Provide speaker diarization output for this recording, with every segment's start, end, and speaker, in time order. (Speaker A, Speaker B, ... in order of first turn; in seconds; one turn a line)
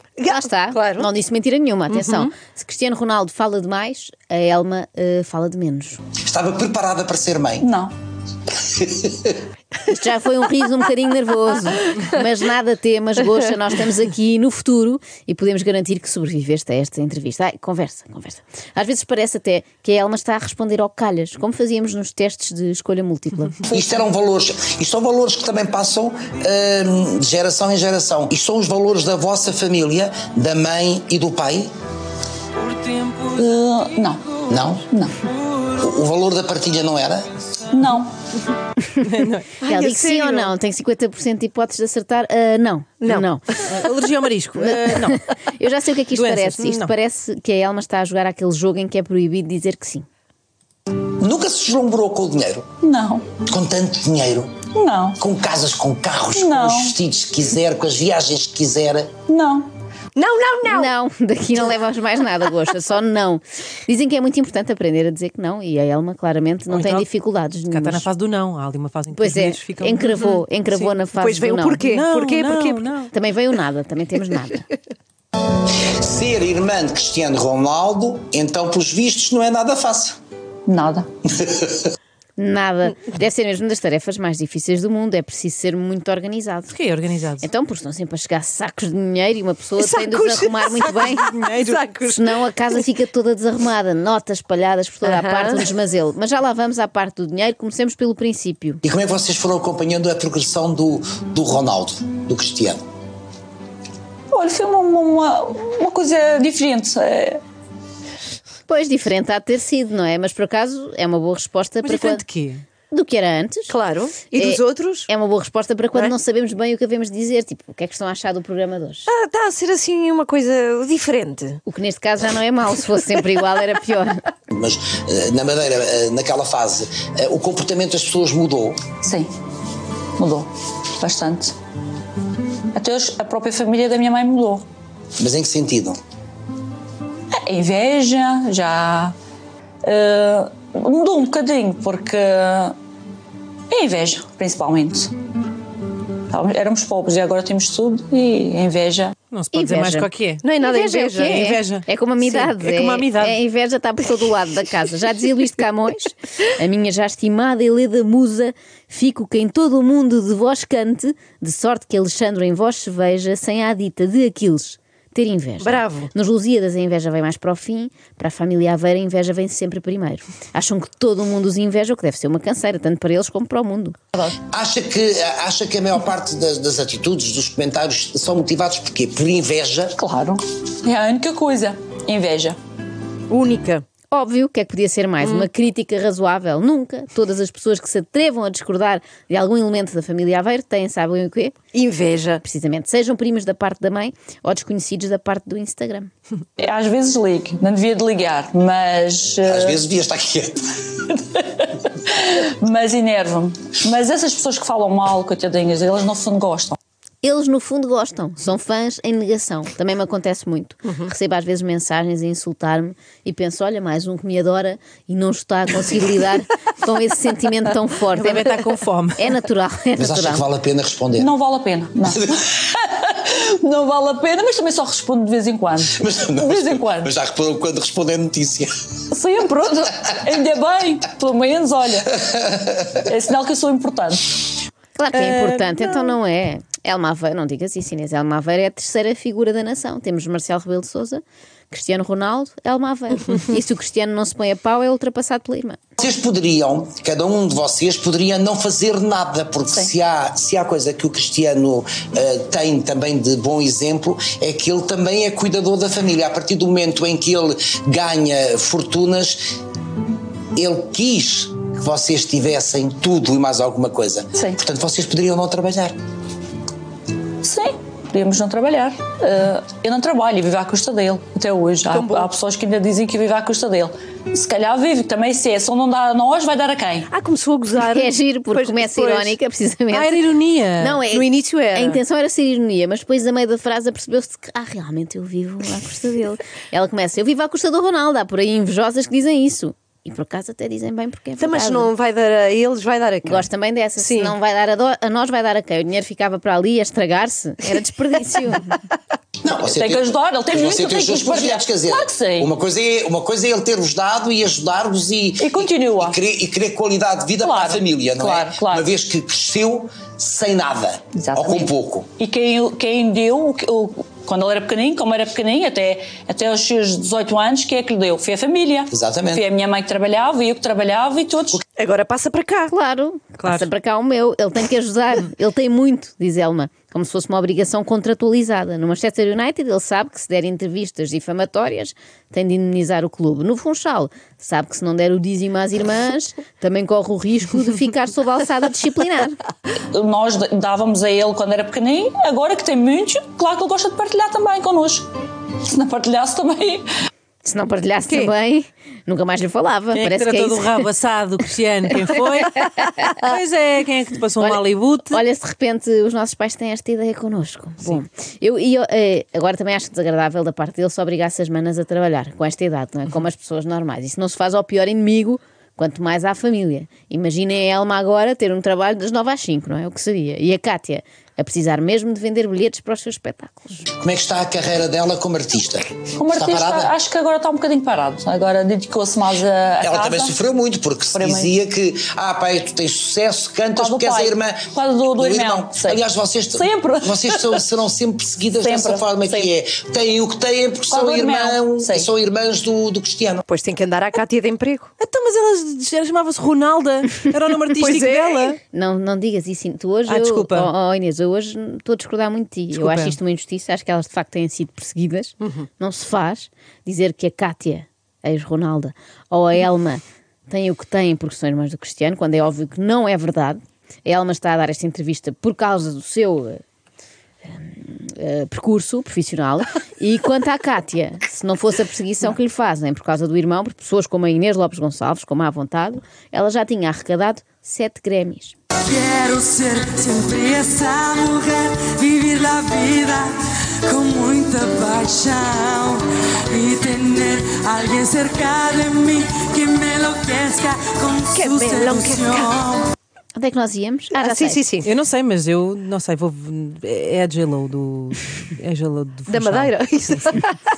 Speaker A: 0.2-1.1
Speaker B: 0.3-6.0
Speaker A: 2.0-2.2
Speaker C: 6.2-7.6
Speaker D: 7.6-7.9
Speaker C: 8.7-9.3
Speaker B: 9.8-23.6
Speaker D: 23.7-24.0
Speaker C: 23.7-31.7
Speaker D: 33.2-34.3
Speaker C: 34.5-34.8
Speaker C: 35.8-37.3
Speaker D: 37.7-38.1
Speaker E: 39.0-39.5
Speaker A: 39.6-40.5
Speaker B: 39.6-43.9
Speaker A: 43.0-43.6
Speaker E: 43.7-45.2
Speaker B: 44.5-50.0
Speaker E: 46.1-46.9
Speaker C: 51.2-52.7
Speaker D: 52.8-53.3
Speaker C: 53.4-54.5
Speaker D: 54.7-55.2
Speaker C: 55.2-59.1
Speaker D: 56.3-57.0
Speaker D: 59.3-59.7
Speaker A: 60.1-60.9
Speaker B: 60.7-68.1
Speaker E: 66.7-67.0
Speaker E: 67.7-71.0
Speaker B: 69.1-71.9
Speaker A: 71.2-72.9
Speaker E: 71.9-73.1
Speaker B: 73.1-74.7
Speaker C: 76.0-80.2
Speaker D: 80.7-81.1
Speaker C: 81.3-81.8
Speaker B: 82.4-86.8
Speaker E: 86.7-87.4
Speaker B: 87.4-91.4
Speaker A: 89.8-92.3
Speaker E: 91.3-91.8
Speaker B: 92.1-98.8
Speaker A: 95.0-95.6
Speaker C: 98.8-102.8
Speaker D: 104.3-107.4
Speaker B: 108.7-112.2
Speaker E: 111.8-112.6
Speaker B: 112.9-113.7
Speaker A: 113.7-115.1
Speaker B: 114.3-119.1
Speaker A: 119.1-121.6
Speaker B: 121.7-124.2
Speaker C: 124.5-128.8
Speaker D: 129.0-129.3
Speaker D: 130.2-131.5
Speaker D: 132.7-134.6
Speaker C: 135.2-136.0
Speaker D: 137.3-139.1
Speaker D: 139.8-142.8
Speaker D: 143.7-145.1
Speaker D: 146.3-149.1
Speaker E: 149.3-150.4
Speaker B: 149.5-150.1
Speaker A: 150.4-151.4
Speaker B: 150.6-174.0
Speaker E: 151.2-153.4
Speaker A: 165.6-166.1
Speaker C: 174.5-179.9
Speaker D: 180.0-182.6
Speaker A: 183.3-183.8
Speaker B: 184.1-191.6
Speaker A: 191.7-192.4
Speaker B: 192.4-196.1
Speaker D: 196.6-199.8
Speaker C: 199.4-200.7
Speaker D: 201.1-206.8
Speaker B: 207.2-218.6
Speaker E: 218.1-219.3
Speaker B: 219.2-220.4
Speaker C: 220.0-221.3
Speaker D: 221.2-227.1
Speaker C: 225.9-228.7
Speaker D: 229.1-232.2
Speaker D: 233.0-234.4
Speaker B: 235.0-245.8
Speaker D: 235.1-236.1
Speaker C: 246.0-259.4
Speaker C: 260.6-265.9
Speaker D: 267.4-277.1
Speaker A: 271.9-272.3
Speaker A: 277.1-279.3
Speaker B: 277.9-291.9
Speaker E: 279.9-281.0
Speaker A: 281.0-282.0
Speaker A: 291.4-294.3
Speaker B: 293.2-298.7
Speaker C: 299.4-312.1
Speaker D: 299.5-302.5
Speaker D: 305.4-306.2
Speaker D: 307.4-308.9
Speaker D: 311.1-321.6
Speaker C: 318.9-319.4
Speaker A: 321.8-322.7
Speaker B: 322.7-339.4
Speaker E: 323.4-323.6
Speaker D: 339.9-345.1
Speaker D: 345.6-346.9
Speaker B: 347.4-350.9
Speaker E: 349.9-355.2
Speaker B: 354.4-373.9
Speaker C: 374.0-376.9
Speaker D: 376.1-380.4
Speaker C: 379.8-393.4
Speaker D: 381.1-381.5
Speaker D: 383.8-387.6
Speaker D: 388.5-389.5
Speaker D: 390.9-392.1
Speaker A: 393.5-394.9
Speaker E: 395.0-398.6
Speaker A: 397.7-398.6
Speaker B: 398.7-416.6
Speaker E: 400.1-400.7
Speaker E: 402.7-403.1
Speaker B: 417.4-428.6
Speaker F: 428.9-442.9
Speaker A: 441.3-442.5
Speaker B: 443.4-444.6
Speaker A: 444.1-444.9
Speaker E: 444.8-450.3
Speaker A: 449.3-450.5